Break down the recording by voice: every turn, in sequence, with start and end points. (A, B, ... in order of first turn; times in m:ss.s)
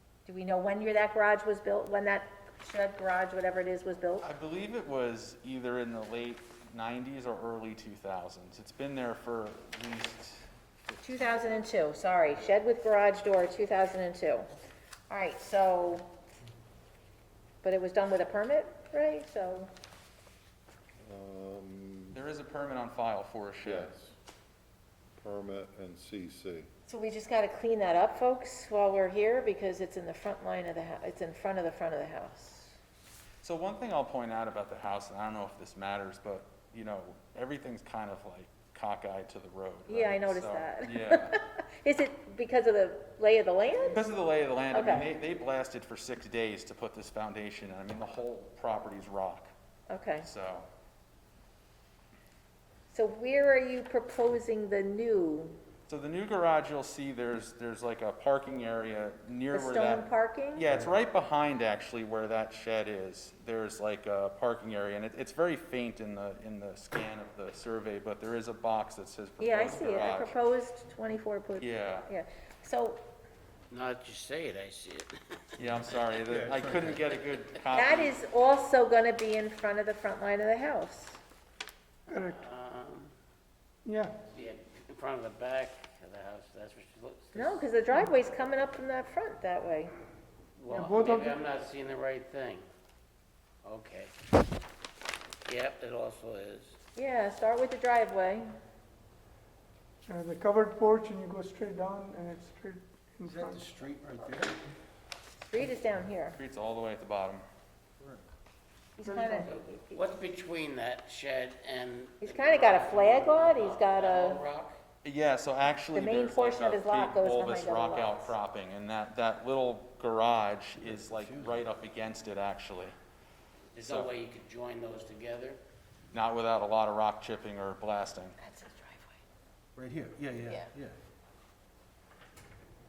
0:00.2-0:04.3 A
0:04.2-0:10.4 B
0:11.0-0:14.5 A
0:15.1-0:16.1 A
0:17.6-0:19.7 A
0:21.0-0:22.1 C
0:22.1-0:23.9 B
0:23.6-0:24.1 C
0:25.2-0:26.7 C
0:26.9-0:32.7 A
0:33.4-0:41.4 B
0:39.9-0:44.0 A
0:43.9-0:49.5 B
0:44.7-0:45.0 A
0:49.9-0:50.3 A
0:50.2-0:50.7 B
0:52.9-0:55.6 A
0:55.9-1:10.4 B
0:59.5-1:00.6 A
1:09.4-1:13.0 A
1:11.6-1:12.1 B
1:13.7-1:15.4 D
1:15.6-1:18.2 B
1:16.4-1:16.9 E
1:17.7-1:21.2 A
1:22.1-1:22.4 F
1:22.2-1:23.1 D
1:23.8-1:24.2 F
1:24.3-1:27.6 D
1:27.3-1:29.9 A
1:30.6-1:32.6 D
1:30.7-1:31.4 F
1:33.6-1:34.1 D
1:35.4-1:36.8 D
1:37.0-1:38.5 A
1:40.0-1:43.7 F
1:43.2-1:44.6 E
1:45.4-1:46.4 A
1:46.3-1:47.4 B
1:49.0-1:49.5 A
1:49.0-1:49.5 F
1:49.4-1:54.8 D
1:52.2-1:54.4 A
1:55.0-2:02.9 B
1:55.9-1:58.3 A
2:00.9-2:01.6 E
2:03.7-2:05.6 D
2:03.8-2:04.1 B
2:06.1-2:08.4 B
2:08.4-2:09.2 A
2:09.8-2:11.0 E
2:10.4-2:10.7 A